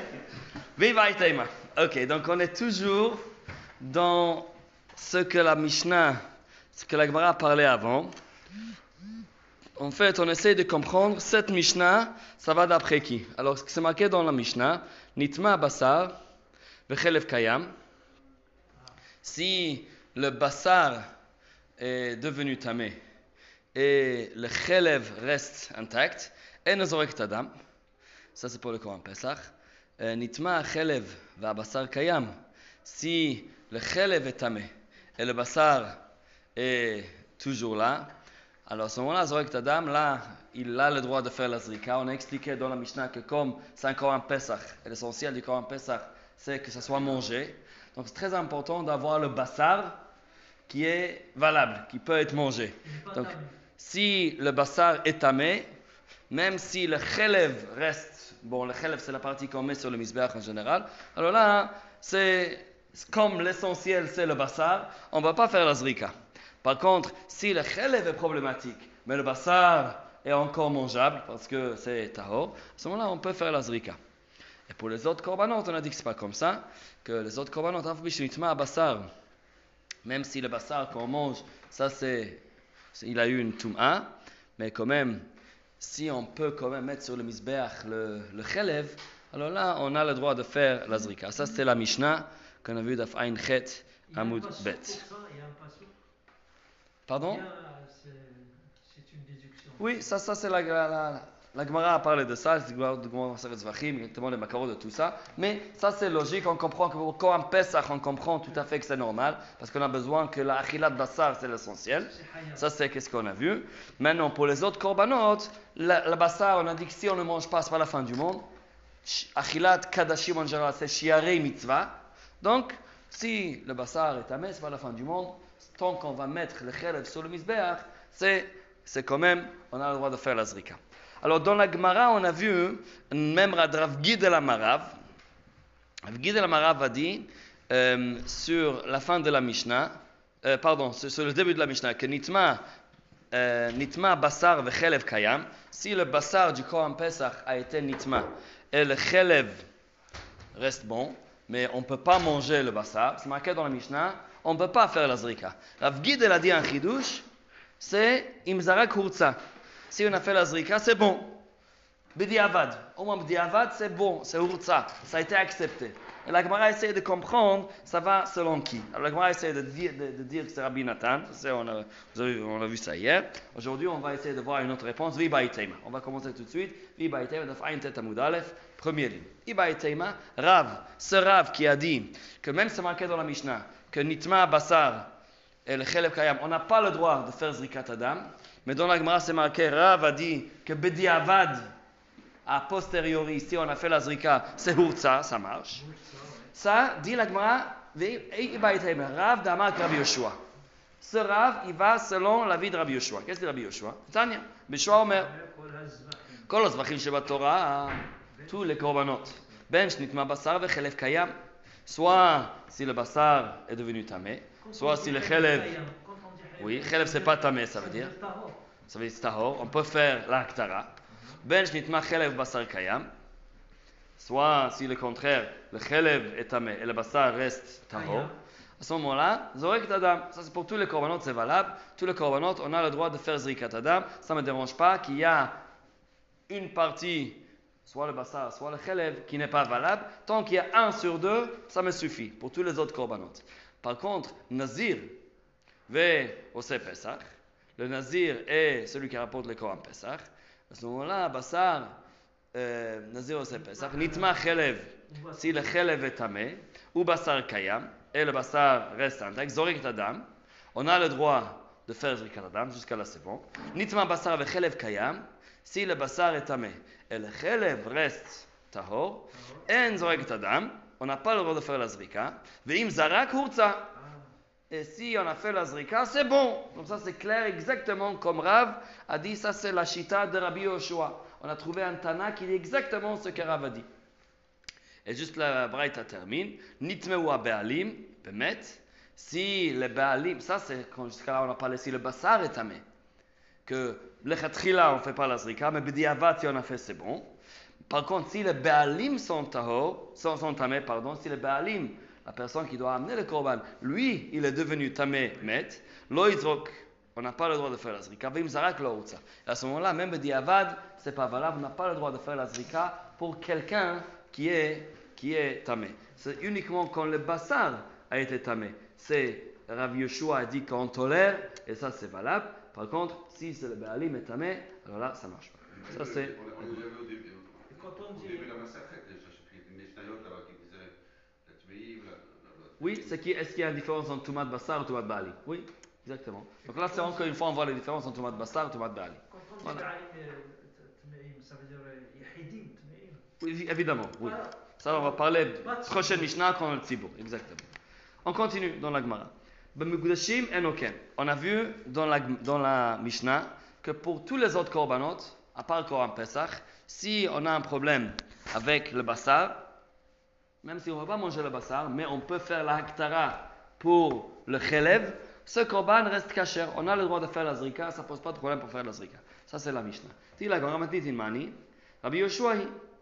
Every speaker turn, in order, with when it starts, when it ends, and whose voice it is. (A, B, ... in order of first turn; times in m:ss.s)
0:00.8-0:03.2 A
0:03.8-0:06.2 A
0:06.7-0:08.1 A
0:09.8-0:16.1 A
0:16.9-0:17.7 A
0:19.2-0:21.0 A
0:21.8-0:23.0 A
0:23.7-0:27.5 A
0:28.3-0:32.3 A
0:32.8-0:36.0 A
0:36.6-0:38.1 A
0:38.7-0:49.9 A
0:50.7-0:55.7 A
0:52.8-0:53.5 B
0:56.3-1:14.0 A
1:14.7-1:19.1 A
1:20.0-1:22.4 A
1:22.9-1:25.3 A
1:25.8-1:35.0 A
1:34.1-1:35.9 B
1:37.1-1:37.4 A
1:37.2-1:39.9 B
1:39.8-1:58.4 A
1:52.1-1:52.6 B
1:59.0-2:14.9 A
2:16.1-2:19.9 A
2:20.4-2:22.6 A
2:23.3-2:29.6 A
2:30.5-2:37.2 A
2:37.8-2:39.4 A
2:39.9-2:41.4 A
2:42.1-3:05.1 A
3:05.6-3:11.7 A
3:12.4-3:15.8 A
3:15.7-3:16.5 B
3:16.5-3:20.4 A
3:21.0-3:25.3 A
3:24.9-3:26.5 B
3:26.5-3:31.3 A
3:28.4-3:29.4 B
3:31.8-3:35.7 A
3:34.6-3:38.6 B
3:36.6-3:38.1 A
3:38.9-3:40.9 A
3:41.4-3:43.1 A
3:44.2-3:55.5 A
3:47.9-3:48.3 B
3:56.5-4:05.2 A
4:05.9-4:07.2 A
4:07.8-4:11.9 A
4:12.5-4:33.9 A
4:13.6-4:14.4 B
4:15.1-4:15.7 B
4:29.3-4:29.7 B
4:33.9-4:34.3 B
4:34.7-4:43.9 A
4:45.0-4:52.8 A
4:53.6-4:57.3 A
4:57.9-5:26.3 A
5:25.7-5:30.9 C
5:27.7-5:28.5 B
5:31.4-5:33.2 C
5:32.8-5:39.9 A
5:36.7-5:37.3 B
5:39.3-5:43.2 B
5:43.4-5:47.6 A
5:44.2-5:46.4 B
5:48.2-5:59.6 A
6:00.6-6:12.7 A